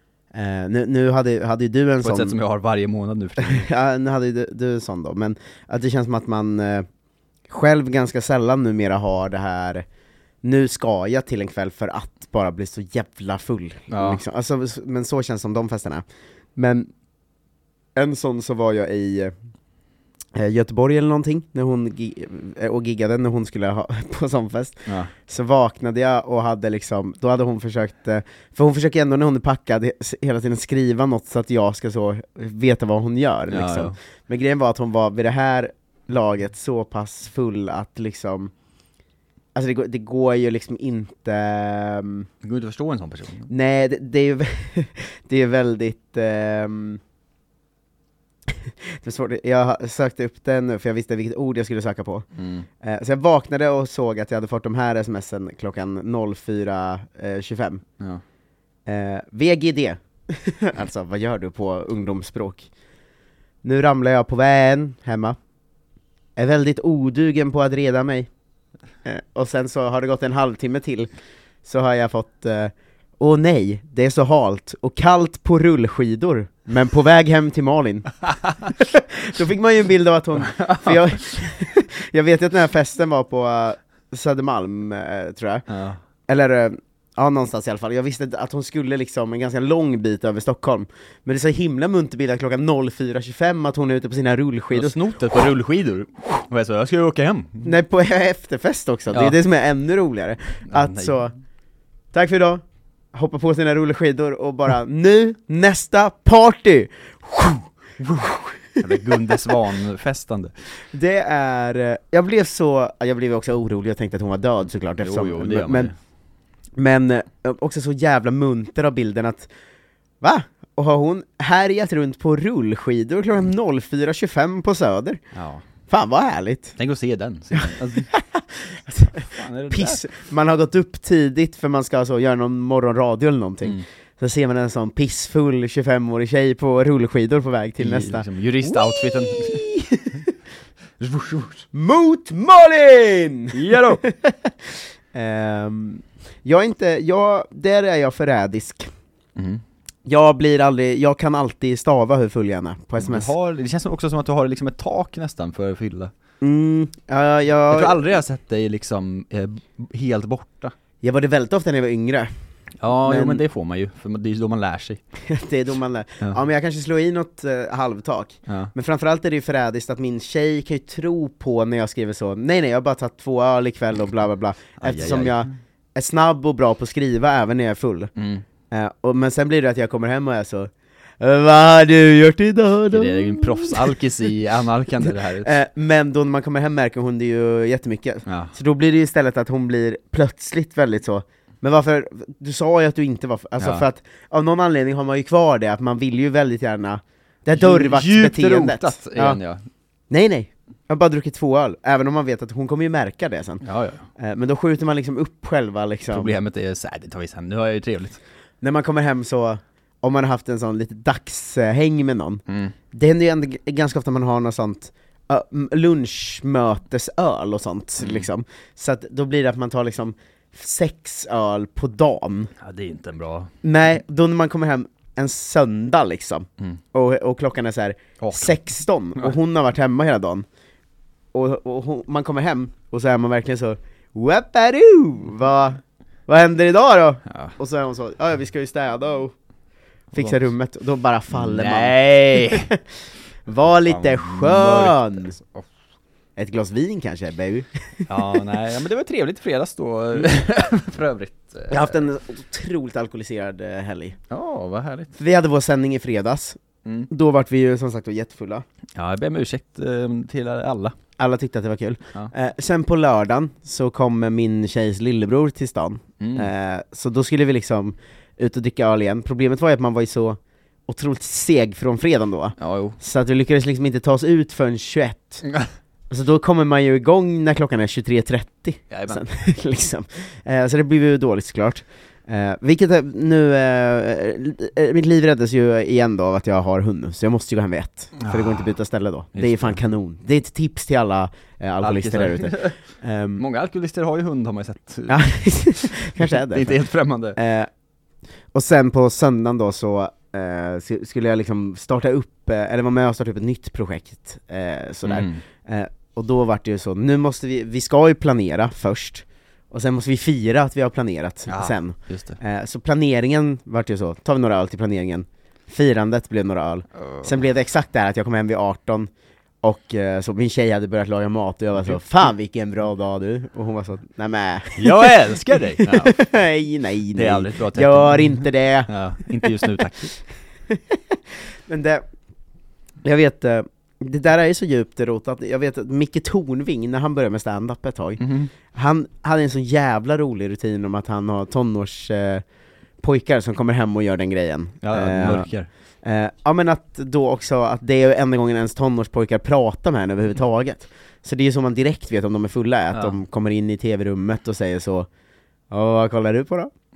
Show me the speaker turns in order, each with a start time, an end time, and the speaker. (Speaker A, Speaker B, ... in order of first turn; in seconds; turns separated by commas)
Speaker A: 0.3-2.4, Speaker B: 2.0-3.7, Speaker A: 3.4-6.8, Speaker A: 7.5-9.8, Speaker A: 10.4-16.0, Speaker B: 13.9-14.2, Speaker A: 16.6-16.9, Speaker A: 17.9-19.3, Speaker A: 20.3-38.5, Speaker B: 24.9-25.1, Speaker B: 33.5-33.9, Speaker A: 39.5-42.3, Speaker B: 42.4-43.5, Speaker A: 43.5-47.0, Speaker A: 48.6-52.2, Speaker B: 52.4-52.6, Speaker A: 52.8-57.8, Speaker A: 58.9-62.7, Speaker A: 63.6-65.4, Speaker A: 66.3-68.3, Speaker A: 69.0-71.1, Speaker A: 71.6-85.7, Speaker B: 78.3-78.7, Speaker B: 80.4-81.1, Speaker B: 85.7-86.0, Speaker A: 86.3-95.4, Speaker B: 94.7-97.7, Speaker A: 97.6-101.3, Speaker B: 99.1-99.4, Speaker B: 100.7-101.2, Speaker A: 102.1-102.6, Speaker A: 103.1-109.5, Speaker B: 108.0-110.5, Speaker A: 110.9-115.9, Speaker B: 115.0-115.9, Speaker A: 116.8-119.5, Speaker A: 120.2-125.2, Speaker B: 125.3-125.6, Speaker A: 125.9-126.8, Speaker B: 126.8-128.1, Speaker A: 127.5-140.3, Speaker B: 129.0-130.0, Speaker B: 137.8-139.7, Speaker B: 141.0-141.7, Speaker A: 141.7-148.9, Speaker B: 143.5-144.0, Speaker B: 149.3-149.6, Speaker A: 150.1-153.3, Speaker B: 153.0-156.1, Speaker A: 156.4-158.0, Speaker B: 157.7-160.7, Speaker A: 161.0-162.3, Speaker B: 162.8-165.0, Speaker A: 163.0-163.4, Speaker A: 165.2-178.1, Speaker B: 168.5-168.7, Speaker B: 174.8-175.5, Speaker B: 178.2-178.4, Speaker A: 178.7-184.0, Speaker B: 182.9-185.5, Speaker A: 185.0-199.4, Speaker B: 188.2-188.5, Speaker B: 193.6-193.8, Speaker B: 197.5-199.7, Speaker A: 200.1-203.6, Speaker B: 203.6-204.1, Speaker A: 204.2-206.4, Speaker B: 206.1-208.2, Speaker A: 208.6-222.5, Speaker B: 212.5-212.7, Speaker B: 218.0-218.3, Speaker B: 222.6-223.5, Speaker A: 223.6-230.4, Speaker B: 228.2-228.6, Speaker A: 231.3-239.3, Speaker B: 237.3-237.6, Speaker B: 240.1-240.4, Speaker A: 240.1-242.8, Speaker B: 241.3-242.7, Speaker A: 243.5-245.3, Speaker B: 243.8-245.7, Speaker A: 246.3-248.3, Speaker B: 248.1-252.0, Speaker A: 251.7-254.2, Speaker B: 254.3-255.1, Speaker A: 255.2-258.6, Speaker B: 258.9-260.9, Speaker A: 261.2-275.4, Speaker B: 266.2-266.5, Speaker B: 272.6-273.0, Speaker A: 276.1-293.4, Speaker B: 278.9-279.2, Speaker B: 288.2-288.7, Speaker B: 289.3-289.8, Speaker B: 291.8-292.8, Speaker B: 293.4-297.4, Speaker A: 295.1-296.8, Speaker A: 297.4-297.7, Speaker A: 298.5-319.1, Speaker B: 305.0-305.4, Speaker B: 311.5-312.4, Speaker A: 319.6-325.1, Speaker B: 324.8-326.2, Speaker A: 325.8-329.6, Speaker B: 327.1-330.2, Speaker A: 330.7-331.0, Speaker A: 331.7-332.0, Speaker A: 333.0-342.4, Speaker B: 338.2-338.5, Speaker A: 343.0-345.5, Speaker B: 344.8-345.7, Speaker A: 346.0-355.1, Speaker B: 352.9-353.2, Speaker A: 355.7-356.7